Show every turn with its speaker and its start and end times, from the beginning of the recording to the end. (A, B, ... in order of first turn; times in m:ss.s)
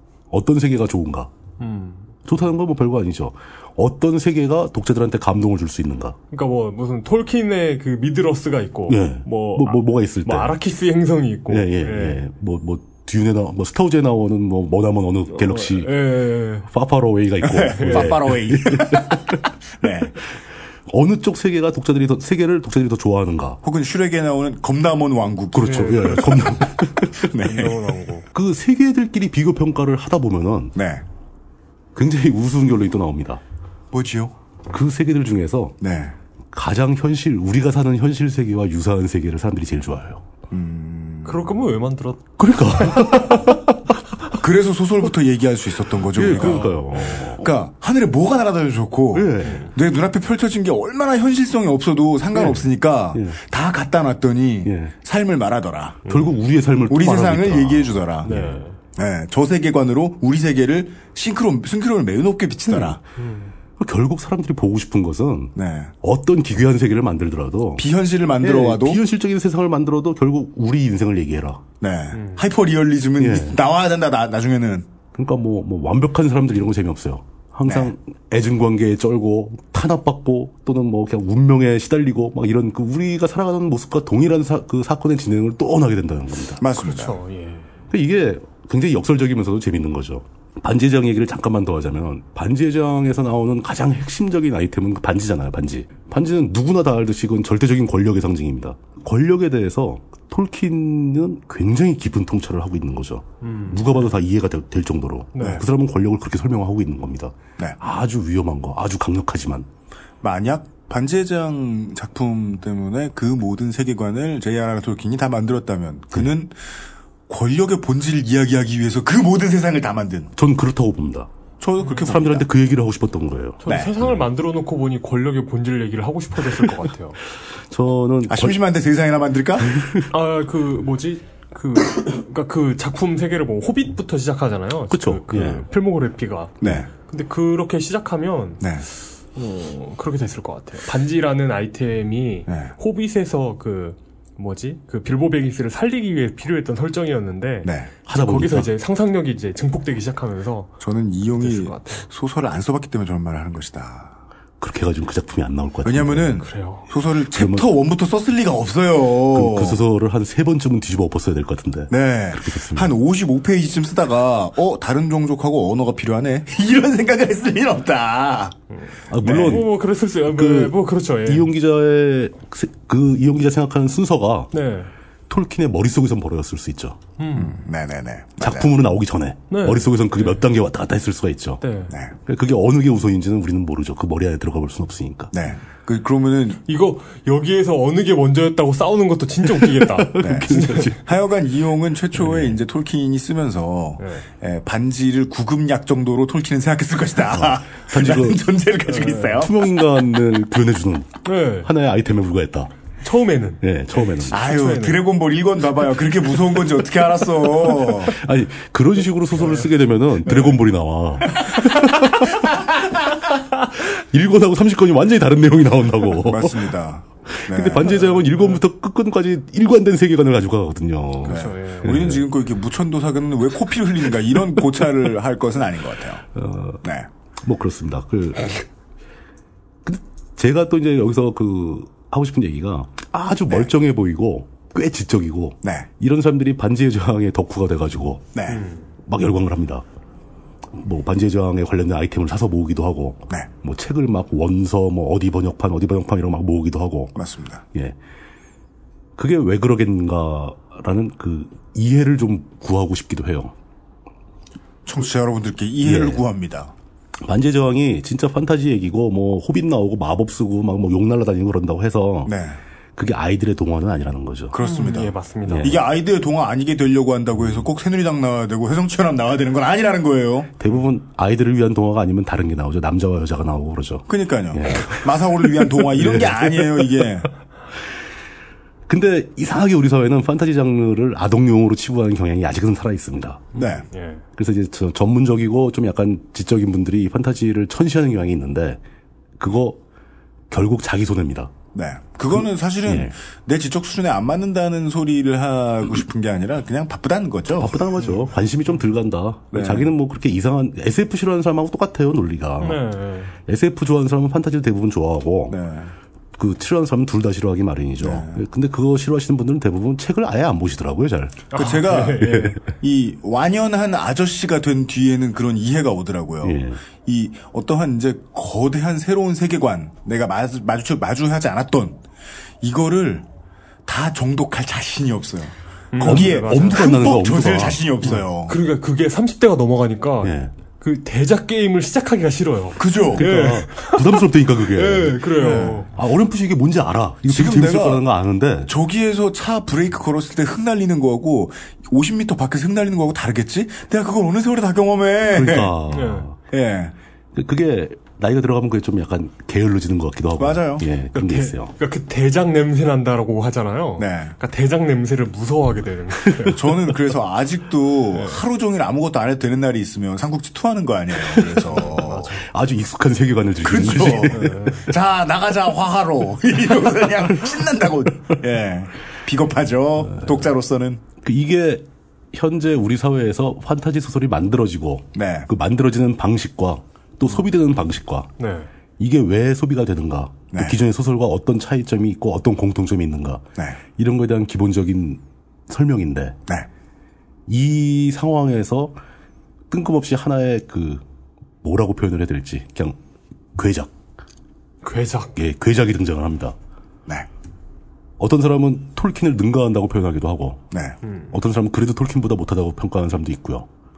0:00.3-0:01.3 A
0:01.6-0:02.1 B
0:02.2-0:06.2 A
0:06.3-0:12.2 B
0:08.9-0:10.6 A
0:11.5-0:16.1 A
0:15.3-0:16.7 B
0:16.6-0:19.2 A
0:17.4-0:20.2 C
0:17.7-0:18.2 B
0:20.9-0:23.6 A
0:23.6-0:26.3 C
0:25.5-0:27.3 A
0:25.6-0:26.6 B
0:27.3-0:27.8 C
0:27.4-0:28.3 B
0:28.3-0:30.7 A
0:30.7-0:31.0 C
0:31.9-0:33.4 A
0:33.9-0:34.3 C
0:34.7-0:35.8 A
0:35.8-0:36.2 C
0:36.5-0:40.2 A
0:40.5-0:41.5 C
0:41.2-0:43.3 B
0:42.4-0:43.9 A
0:44.3-0:46.7 C
0:46.1-0:47.5 A
0:46.2-0:47.3 B
0:47.4-0:56.1 C
0:49.1-0:49.7 A
0:49.4-0:49.7 B
0:52.3-0:52.6 B
0:53.1-0:53.4 A
0:54.6-0:54.9 A
0:56.0-0:56.3 B
0:56.1-0:58.6 A
0:56.9-1:03.0 C
0:58.2-0:58.8 B
1:02.7-1:03.0 A
1:03.2-1:03.5 B
1:03.8-1:07.9 A
1:05.6-1:05.9 C
1:07.8-1:09.0 C
1:08.4-1:11.6 A
1:11.8-1:14.9 C
1:12.1-1:12.5 B
1:13.2-1:13.6 A
1:15.2-1:26.6 A
1:17.6-1:17.9 C
1:26.6-1:27.2 C
1:26.8-1:27.7 B
1:27.9-1:49.7 A
1:43.4-1:44.1 B
1:45.3-1:45.6 B
1:50.2-1:56.6 C
1:57.3-2:00.3 C
2:00.4-2:01.3 A
2:01.6-2:02.4 C
2:01.8-2:02.2 B
2:02.0-2:04.2 A
2:03.6-2:07.2 B
2:03.7-2:03.9 C
2:07.6-2:08.6 A
2:08.3-2:09.7 C
2:09.6-2:10.1 A
2:10.1-2:18.8 B
2:14.9-2:15.6 A
2:16.6-2:16.9 C
2:19.3-2:32.0 B
2:28.0-2:28.7 A
2:30.8-2:34.2 C
2:34.6-2:36.4 A
2:35.8-2:39.8 C
2:36.4-2:36.9 B
2:37.3-2:37.7 A
2:39.3-2:43.0 A
2:41.9-2:48.5 C
2:48.7-2:51.5 B
2:49.1-2:54.5 A
2:49.2-2:49.5 C
2:54.5-2:54.9 B
2:55.3-2:57.0 A
2:57.2-2:57.6 B
2:57.3-2:58.7 C
2:58.4-3:01.6 A
2:59.5-3:00.4 B
3:01.6-3:01.9 B
3:02.2-3:05.3 A
3:05.3-3:06.6 C
3:06.6-3:11.0 B
3:09.6-3:11.0 A
3:10.2-3:19.5 C
3:12.2-3:12.6 B
3:14.0-3:14.2 B
3:17.3-3:18.4 A
3:18.9-3:19.4 B
3:19.3-3:22.7 A
3:21.2-3:21.7 B
3:23.0-3:25.0 B
3:23.6-3:24.4 A
3:24.3-3:28.1 C
3:28.1-3:32.6 A
3:29.4-3:29.7 B
3:30.2-3:30.6 B
3:33.8-3:36.8 A
3:36.2-3:38.1 C
3:37.3-3:42.3 A
3:38.1-3:38.6 B
3:41.2-3:42.0 B
3:41.2-3:46.2 C
3:46.3-3:46.8 A
3:47.4-3:48.6 A
3:49.8-3:58.3 A
3:55.6-3:55.9 C
3:58.3-3:58.6 C
3:58.5-3:58.8 B
3:59.0-3:59.8 A
4:00.7-4:07.2 A
4:07.2-4:07.6 C
4:09.2-4:13.5 A
4:14.8-4:16.7 C
4:15.8-4:16.2 A
4:17.2-4:22.3 A
4:22.2-4:22.6 C
4:23.0-4:24.6 A
4:24.5-4:30.5 C
4:24.6-4:25.8 B
4:25.4-4:25.8 A
4:27.4-4:27.6 A
4:30.6-4:36.8 A
4:34.1-4:37.3 C
4:38.9-4:43.4 A
4:43.5-4:44.2 B
4:43.5-4:43.8 C
4:44.4-4:48.8 A
4:49.4-4:49.8 A
4:50.5-4:51.5 A
4:51.7-4:57.8 C
4:52.3-4:53.1 A
4:57.5-5:02.8 A
4:59.5-4:59.9 C
5:02.6-5:03.3 B
5:03.4-5:05.6 A
5:05.5-5:05.9 C
5:06.4-5:11.4 A
5:08.0-5:08.4 C
5:11.5-5:12.6 B
5:11.5-5:22.0 C
5:12.2-5:12.5 A
5:16.4-5:16.8 A
5:22.6-5:23.2 C
5:23.8-5:28.6 C
5:25.9-5:27.1 B
5:26.0-5:28.1 A
5:28.0-5:35.9 B
5:30.2-5:30.5 A
5:32.8-5:33.6 C
5:33.1-5:38.7 A
5:35.4-5:35.8 C
5:37.3-5:38.0 C
5:38.7-5:45.8 C
5:45.2-5:46.4 A
5:45.9-5:46.3 B
5:46.5-5:46.9 C
5:47.3-5:51.7 A
5:50.4-5:50.9 C
5:51.1-5:56.8 B
5:54.0-5:54.3 C
5:56.5-6:02.3 C
5:58.1-5:58.4 B
6:01.3-6:01.9 A
6:01.7-6:02.5 B
6:02.4-6:04.7 A
6:03.6-6:11.0 C
6:04.0-6:04.9 B
6:11.2-6:18.3 A
6:15.1-6:15.5 C
6:18.4-6:18.7 B
6:19.0-6:23.4 A
6:24.0-6:26.4 A
6:27.5-6:29.0 A
6:29.7-6:31.0 A
6:31.6-6:33.0 A
6:33.6-6:33.9 A
6:34.8-6:35.3 B
6:35.4-6:36.6 A
6:38.2-6:40.6 A
6:41.0-6:41.3 B
6:41.3-6:43.7 A